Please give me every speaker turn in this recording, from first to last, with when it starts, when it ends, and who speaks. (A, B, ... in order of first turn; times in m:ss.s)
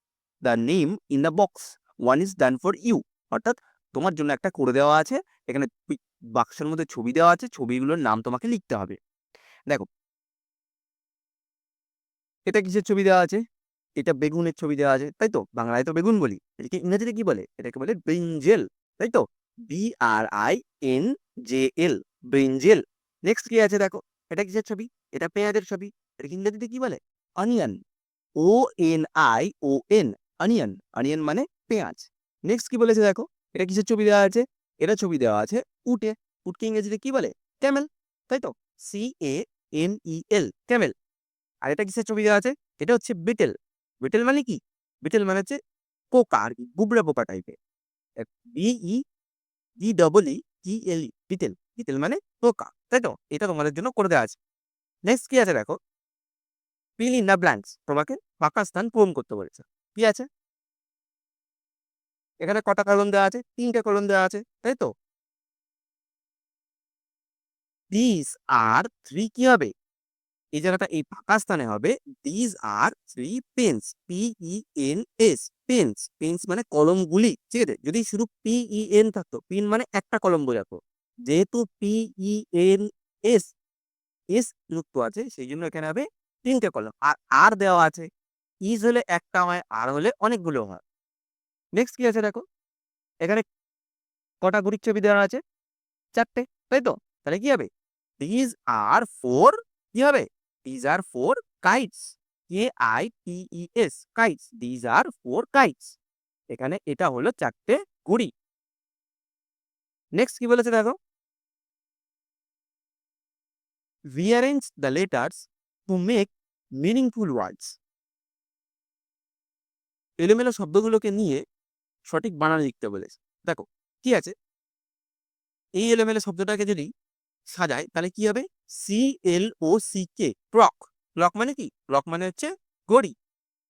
0:00.4-0:09.0 A
0:12.4-0:13.4 A
0:14.0-0:27.8 A
0:28.4-0:40.9 A
0:41.6-0:45.6 A
0:46.1-0:47.6 A
0:48.2-0:49.0 A
0:49.8-0:54.3 A
0:55.1-0:55.8 A
0:57.0-1:00.3 A
1:02.4-1:04.9 A
1:07.9-1:09.7 A
1:10.6-1:23.5 A
1:24.3-1:28.1 A
1:28.7-1:30.8 A
1:31.8-1:32.4 A
1:34.4-1:35.4 A
1:36.1-1:37.7 A
1:38.2-1:46.0 A
1:46.5-1:48.3 A
1:50.2-1:50.9 A
1:54.1-1:57.8 A
2:00.2-2:01.4 A
2:02.0-2:04.3 A
2:05.8-2:06.9 A
2:07.5-2:13.1 A